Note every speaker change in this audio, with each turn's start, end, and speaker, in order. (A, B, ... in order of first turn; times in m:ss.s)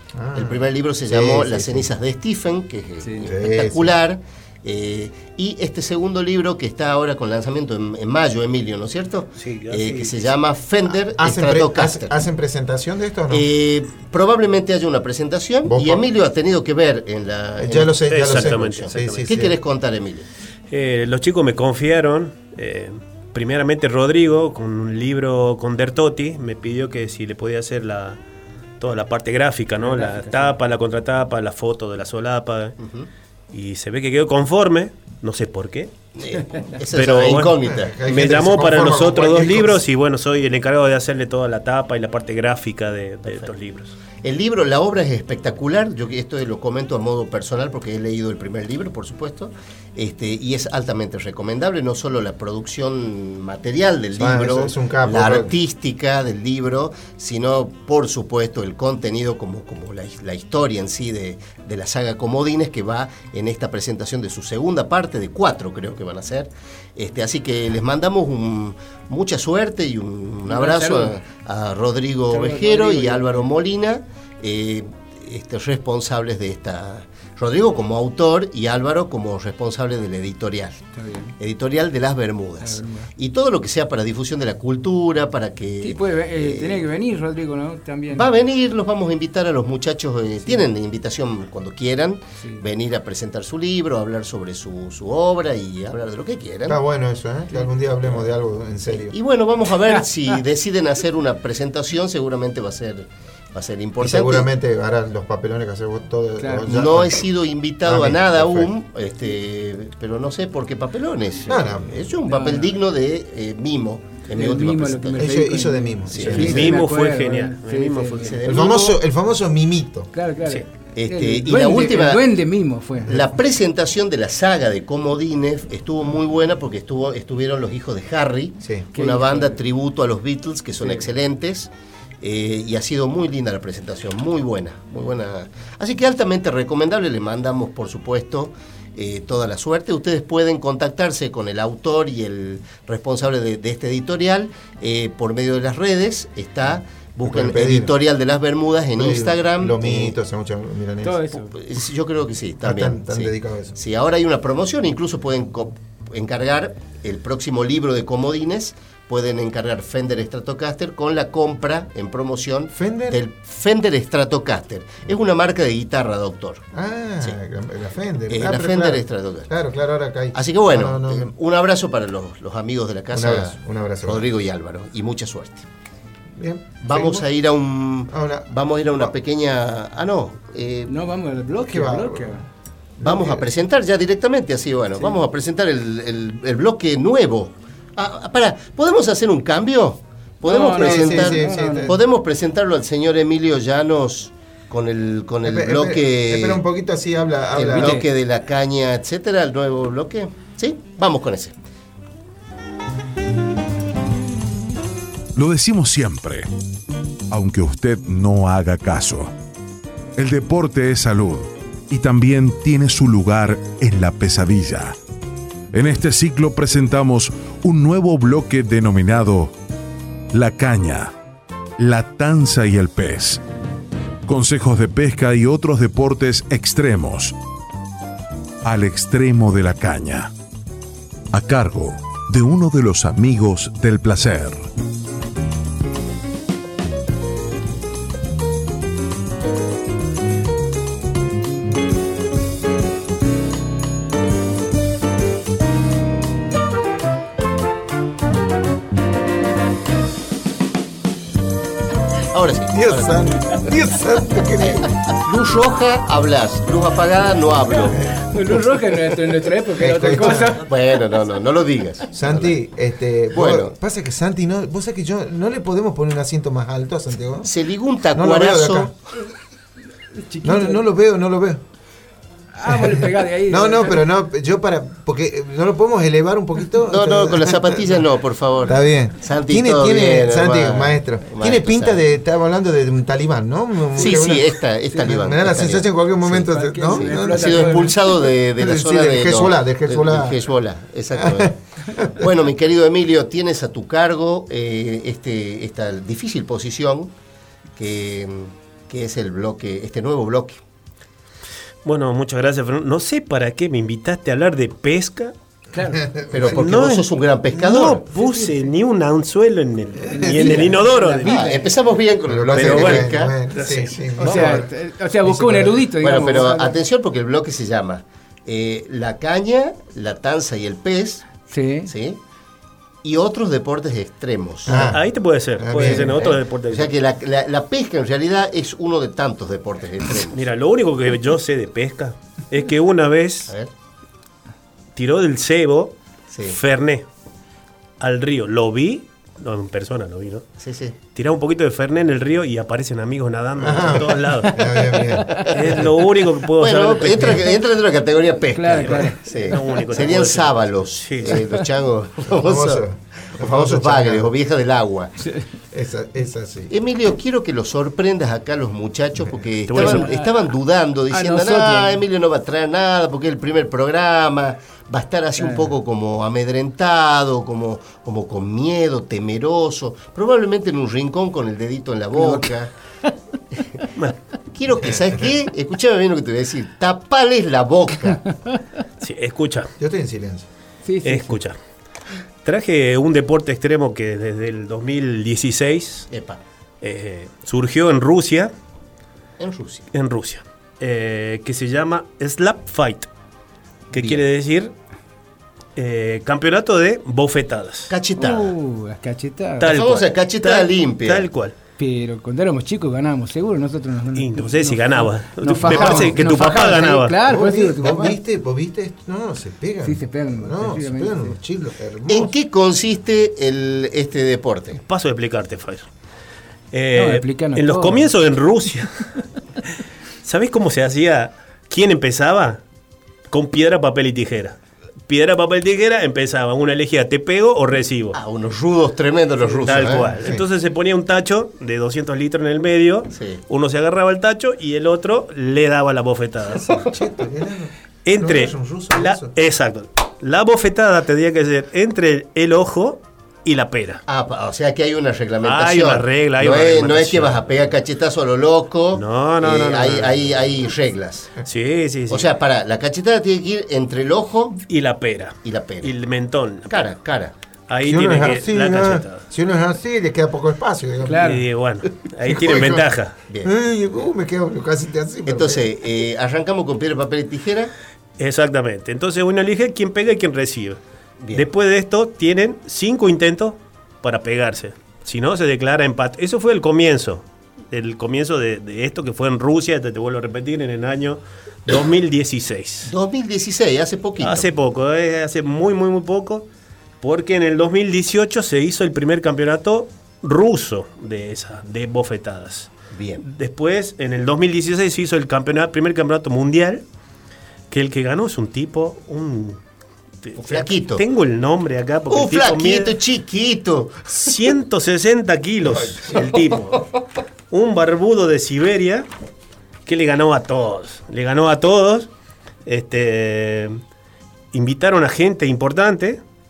0:00.1-0:01.9 A
0:00.4-0:12.2 B
0:03.0-0:03.3 C
0:03.2-0:04.0 A
0:09.4-0:10.4 D
0:11.2-0:13.5 A
0:13.3-0:20.2 B
0:15.6-0:16.0 A
0:17.6-0:19.6 A
0:18.1-0:19.2 D
0:20.7-0:28.2 D
0:28.8-0:32.8 D
0:29.8-0:30.6 C
0:32.8-0:33.1 B
0:33.5-0:35.9 D
0:36.2-0:38.6 B
0:36.9-0:37.6 D
0:37.6-0:39.8 A
0:38.1-0:44.0 D
0:43.3-0:43.5 B
0:44.2-1:20.8 B
0:54.2-0:55.5 A
1:10.5-1:11.2 C
1:12.3-1:13.5 C
1:21.0-1:21.3 C
1:21.4-1:26.8 B
1:22.6-1:23.1 C
1:25.8-1:28.3 C
1:28.1-1:36.8 B
1:36.7-1:39.1 A
1:39.1-1:44.5 B
1:44.0-1:47.3 A
1:46.4-1:46.7 C
1:46.7-1:55.3 B
1:47.8-1:48.7 A
1:51.5-1:51.9 A
1:52.3-1:52.7 C
1:54.4-1:58.2 C
1:55.2-1:56.7 A
1:56.1-1:56.8 B
1:56.3-1:58.5 D
1:58.2-1:59.0 B
1:58.4-2:00.1 A
2:00.1-2:03.1 C
2:01.0-2:02.2 B
2:03.1-2:30.2 B
2:08.6-2:08.9 A
2:08.9-2:09.6 C
2:27.2-2:27.9 A
2:29.0-2:31.2 A
2:31.0-2:31.5 C
2:31.5-2:46.6 B
2:32.6-2:33.8 A
2:42.7-2:43.2 A
2:46.7-2:51.3 A
2:48.3-2:49.5 B
2:50.3-2:55.6 B
2:53.1-2:54.3 A
2:56.4-2:57.3 A
2:56.8-3:00.9 B
2:58.1-2:59.1 A
3:00.9-3:02.4 C
3:01.6-3:02.4 A
3:03.0-3:03.5 A
3:03.0-3:16.6 B
3:10.5-3:11.9 C
3:10.6-3:12.0 A
3:15.4-3:18.0 A
3:17.5-3:18.1 C
3:17.6-3:21.6 B
3:25.4-3:26.5 E
3:27.3-3:29.3 E
3:30.2-3:35.0 E
3:35.7-3:39.5 E
3:40.3-3:41.1 E
3:41.8-3:43.4 E
3:44.3-3:47.4 E
3:48.6-3:50.3 E
3:51.3-3:54.7 E
4:12.3-4:13.6 B
4:12.7-4:14.9 A
4:14.6-4:18.0 B
4:18.3-4:20.7 C
4:19.8-4:20.6 A
4:20.3-4:22.5 B
4:22.1-4:27.5 A
4:23.3-4:23.7 B
4:27.4-4:28.9 B
4:28.1-4:28.9 A
4:30.3-4:30.8 C
4:30.4-4:31.6 A
4:32.5-4:34.0 C
4:32.7-4:38.0 A
4:36.9-4:42.0 B
4:38.7-4:48.0 A
4:44.0-4:45.9 B
4:46.2-4:47.9 C
4:46.9-4:51.6 B
4:48.6-4:50.4 A
4:51.1-4:52.2 A
4:52.2-4:57.1 B
4:57.8-5:00.6 B
5:01.8-5:05.3 D
5:05.7-5:06.1 C
5:06.3-5:08.0 B
5:06.3-5:11.2 D
5:10.1-5:11.7 C
5:10.1-5:11.6 A
5:11.2-5:13.5 B
5:12.3-5:15.9 A
5:12.5-5:14.0 D
5:14.2-5:16.7 C
5:14.2-5:14.6 B
5:16.0-5:21.3 B
5:21.5-5:21.9 C
5:21.9-5:22.2 B
5:23.0-5:24.9 B
5:24.7-5:26.4 A
5:24.7-5:26.9 D
5:25.8-5:30.4 B
5:30.3-5:33.5 D
5:35.0-5:35.9 D
5:36.3-5:36.6 B
5:36.5-5:37.0 D
5:38.0-5:40.4 D
5:40.6-5:41.0 B
5:41.1-5:44.5 D
5:43.6-5:45.9 A
5:44.9-5:45.5 C
5:45.5-5:47.5 D
5:46.6-5:55.1 B
5:48.5-5:49.3 C
5:48.8-5:51.4 D
5:52.3-5:54.3 A
5:55.7-5:56.7 A
5:56.7-6:12.7 B
5:59.7-6:00.1 D
5:59.7-6:00.3 C
6:01.1-6:01.9 C
6:05.4-6:05.7 C
6:14.5-6:18.3 B
6:19.0-6:19.7 D
6:19.8-6:20.5 A
6:20.8-6:21.4 C
6:21.0-6:21.6 D
6:22.4-6:26.1 D
6:26.1-6:26.4 B
6:26.8-6:28.5 D
6:29.4-6:29.9 B
6:29.9-6:33.1 D
6:33.9-6:34.7 D
6:35.8-6:37.9 D
6:37.9-6:38.5 B
6:38.2-6:39.7 C
6:39.6-6:41.5 D
6:39.6-6:41.3 B
6:41.8-6:48.2 C
6:44.2-6:47.2 D
6:45.7-6:46.1 A
6:47.2-6:52.3 A
6:49.8-6:51.4 C
6:52.1-6:54.8 B
6:54.8-6:55.8 D
6:56.7-6:59.2 D
6:56.9-6:58.1 C
7:00.2-7:02.6 D
7:03.3-7:08.2 D
7:08.1-7:10.2 B
7:09.6-7:16.8 D
7:10.2-7:10.4 A
7:13.1-7:13.4 B
7:16.5-7:19.3 A
7:18.1-7:24.0 D
7:24.1-7:31.3 B
7:25.4-7:27.4 D
7:28.9-7:30.4 D
7:31.5-7:32.3 D
7:32.1-7:34.6 B
7:34.7-7:36.9 D
7:35.4-7:35.9 B
7:36.7-7:37.3 B
7:37.7-7:39.2 D
7:37.8-7:41.4 A
7:41.0-7:41.4 C
7:41.2-7:43.1 D
7:42.1-7:42.9 A
7:43.4-7:45.7 A
7:45.3-7:47.7 B
7:48.2-7:50.8 D
7:51.2-7:51.5 B
7:51.3-8:02.9 D
8:02.9-8:04.5 B
8:04.2-8:06.5 D
8:07.0-8:12.7 D
8:12.9-8:13.2 B
8:13.3-8:16.8 D
8:17.7-8:19.6 D
8:20.2-8:23.0 D
8:20.4-8:21.0 B
8:22.1-8:24.3 B
8:24.1-8:26.9 D
8:25.6-8:26.1 A
8:26.1-8:26.8 B
8:27.5-8:29.1 D
8:29.9-8:32.1 D
8:32.7-8:33.8 D
8:34.5-8:36.2 D